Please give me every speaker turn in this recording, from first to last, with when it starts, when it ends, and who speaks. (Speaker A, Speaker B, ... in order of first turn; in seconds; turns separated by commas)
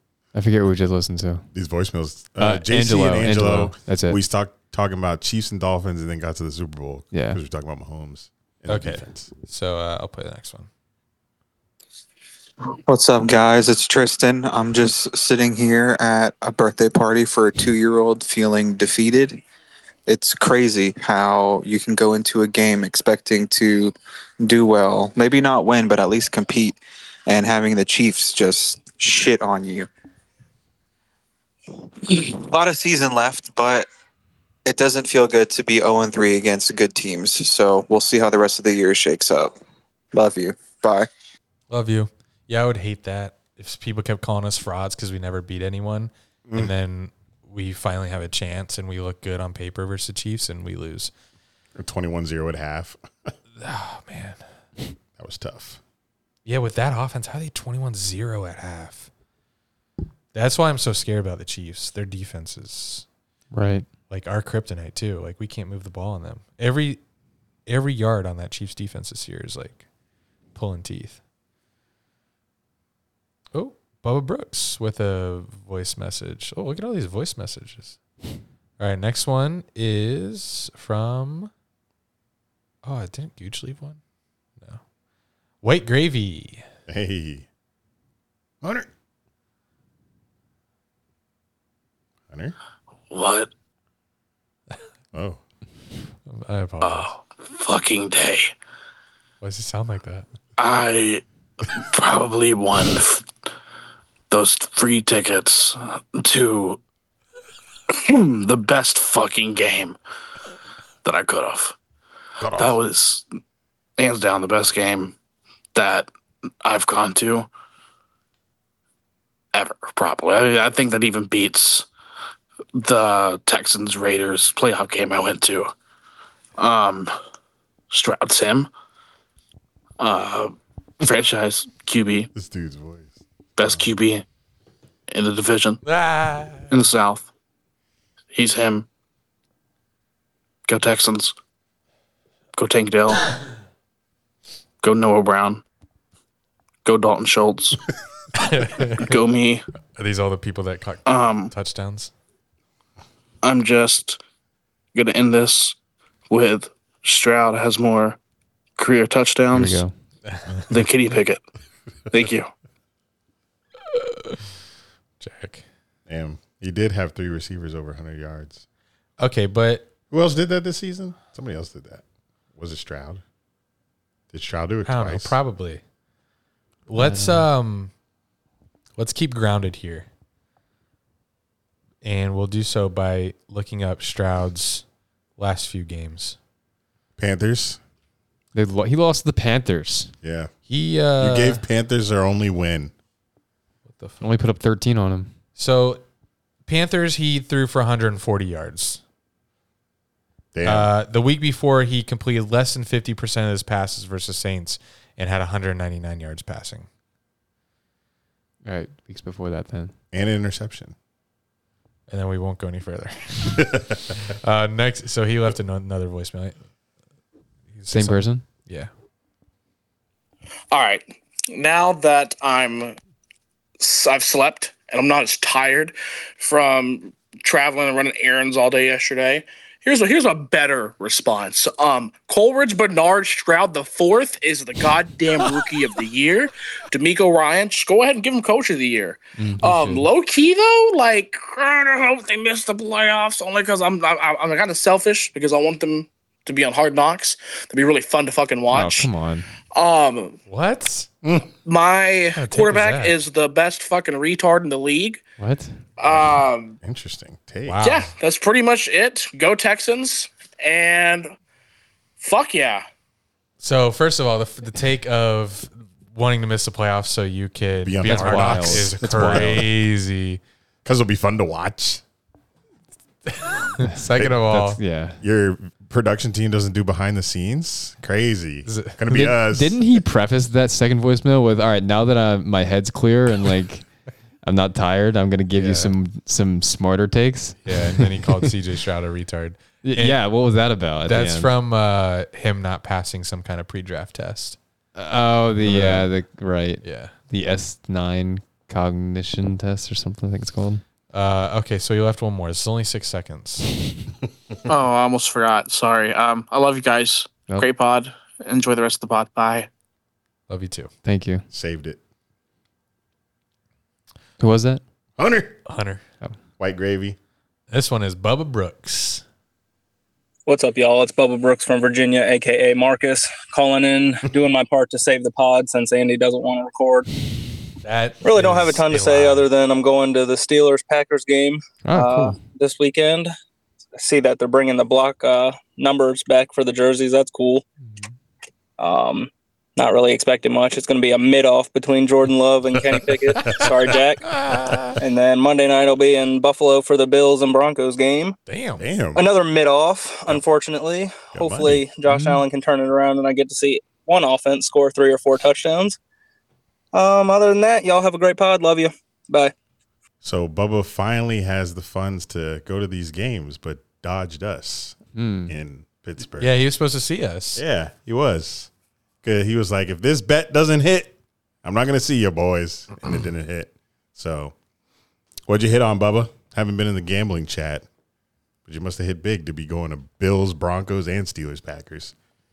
Speaker A: 0.3-1.5, Speaker B: 1.5-9.3, Speaker A: 2.4-4.2, Speaker A: 7.1-7.4, Speaker C: 8.7-10.7, Speaker D: 12.9-19.4, Speaker D: 20.1-29.9, Speaker D: 32.0-33.9, Speaker D: 34.7-39.5, Speaker D: 40.1-41.1, Speaker C: 41.7-51.1, Speaker B: 51.8-53.3, Speaker C: 53.6-54.4, Speaker B: 55.2-55.8, Speaker C: 56.5-59.1, Speaker C: 60.3-63.1, Speaker A: 63.5-63.9, Speaker C: 64.1-67.0, Speaker C: 67.7-69.8, Speaker C: 70.5-71.2, Speaker C: 73.5-78.0, Speaker C: 78.8-81.5, Speaker C: 82.8-84.0, Speaker C: 85.6-86.7, Speaker B: 86.9-87.5, Speaker B: 88.6-88.9, Speaker B: 92.3-92.5, Speaker E: 93.1-93.5, Speaker B: 95.1-95.4, Speaker C: 96.3-97.1, Speaker E: 96.8-98.5, Speaker C: 99.4-100.3, Speaker E: 100.6-103.3, Speaker E: 104.3-106.8, Speaker E: 107.9-110.0, Speaker E: 111.0-111.8, Speaker B: 112.4-112.8, Speaker E: 112.5-113.3, Speaker E: 114.0-115.2, Speaker E: 115.7-116.1, Speaker E: 116.6-117.5, Speaker E: 119.5-121.9, Speaker E: 122.8-125.7, Speaker E: 126.6-127.1, Speaker E: 127.9-128.7, Speaker E: 130.0-132.3, Speaker B: 132.3-133.8, Speaker E: 133.6-134.2, Speaker E: 135.1-135.8, Speaker C: 135.8-136.7, Speaker E: 136.7-137.3, Speaker E: 138.3-138.9, Speaker E: 140.7-141.3, Speaker E: 142.6-143.3, Speaker E: 144.8-145.6, Speaker E: 146.8-147.8, Speaker C: 148.4-149.1, Speaker E: 149.0-149.6, Speaker C: 150.0-152.1, Speaker E: 151.1-151.5, Speaker E: 153.4-154.2, Speaker E: 154.9-155.8, Speaker E: 156.3-158.2, Speaker E: 158.8-159.8, Speaker A: 159.5-159.9, Speaker C: 160.3-160.6, Speaker E: 160.7-161.4, Speaker E: 162.1-162.5, Speaker C: 163.9-164.4, Speaker C: 165.2-165.7, Speaker B: 166.1-168.7, Speaker C: 169.2-169.9, Speaker B: 170.1-172.0, Speaker B: 172.6-173.2, Speaker B: 174.3-175.4, Speaker C: 174.9-175.8, Speaker C: 176.9-177.9, Speaker A: 177.0-177.5, Speaker C: 179.0-180.1, Speaker C: 182.0-184.8, Speaker C: 185.4-186.4, Speaker B: 187.2-187.8, Speaker A: 188.6-190.1, Speaker B: 190.2-190.5, Speaker C: 190.7-191.6, Speaker B: 191.2-192.9, Speaker C: 193.9-194.2, Speaker A: 194.2-195.3, Speaker C: 195.6-196.0, Speaker C: 196.7-199.0, Speaker B: 200.5-200.9, Speaker C: 200.6-206.9, Speaker A: 208.6-209.9, Speaker B: 210.1-210.9, Speaker C: 212.1-216.6, Speaker C: 217.7-218.9, Speaker A: 217.9-218.4, Speaker E: 220.7-223.0, Speaker E: 223.8-249.1, Speaker A: 239.4-240.1, Speaker A: 248.7-249.5, Speaker E: 249.7-250.4, Speaker C: 250.5-251.1, Speaker E: 251.6-255.2, Speaker C: 252.3-253.2, Speaker A: 255.4-255.8, Speaker E: 256.0-256.8, Speaker B: 256.8-257.8, Speaker C: 257.7-258.1, Speaker E: 257.8-261.3, Speaker E: 262.2-262.8, Speaker C: 263.6-270.4, Speaker B: 267.8-269.7, Speaker A: 268.1-269.7, Speaker B: 270.9-272.0, Speaker C: 273.3-274.8, Speaker A: 273.9-275.2, Speaker B: 275.2-279.8, Speaker C: 278.7-279.0, Speaker A: 279.1-283.9, Speaker A: 284.4-288.5, Speaker C: 285.6-285.9, Speaker C: 287.6-290.2, Speaker A: 289.8-291.5, Speaker C: 291.1-294.6, Speaker A: 294.9-300.8, Speaker C: 295.6-296.1, Speaker C: 296.8-297.1, Speaker C: 301.1-303.7, Speaker E: 304.7-309.7, Speaker C: 310.5-310.9, Speaker A: 311.1-311.4, Speaker B: 311.5-312.0, Speaker A: 314.4-314.8, Speaker B: 315.2-315.6, Speaker C: 315.7-316.0, Speaker B: 316.6-317.2, Speaker C: 317.7-319.2, Speaker F: 320.5-327.1, Speaker C: 327.8-329.5, Speaker F: 328.2-333.3, Speaker A: 331.9-332.4, Speaker F: 334.0-337.6, Speaker F: 338.8-344.3, Speaker C: 344.3-345.0, Speaker F: 345.0-348.4, Speaker C: 348.5-348.8, Speaker B: 348.8-349.2, Speaker F: 349.2-356.0, Speaker B: 351.3-351.8, Speaker A: 352.1-352.4, Speaker F: 356.9-359.5, Speaker B: 360.2-366.6, Speaker A: 365.1-365.5, Speaker C: 366.4-367.6, Speaker B: 367.6-368.7, Speaker B: 369.2-374.5, Speaker B: 375.5-377.9, Speaker B: 378.6-382.1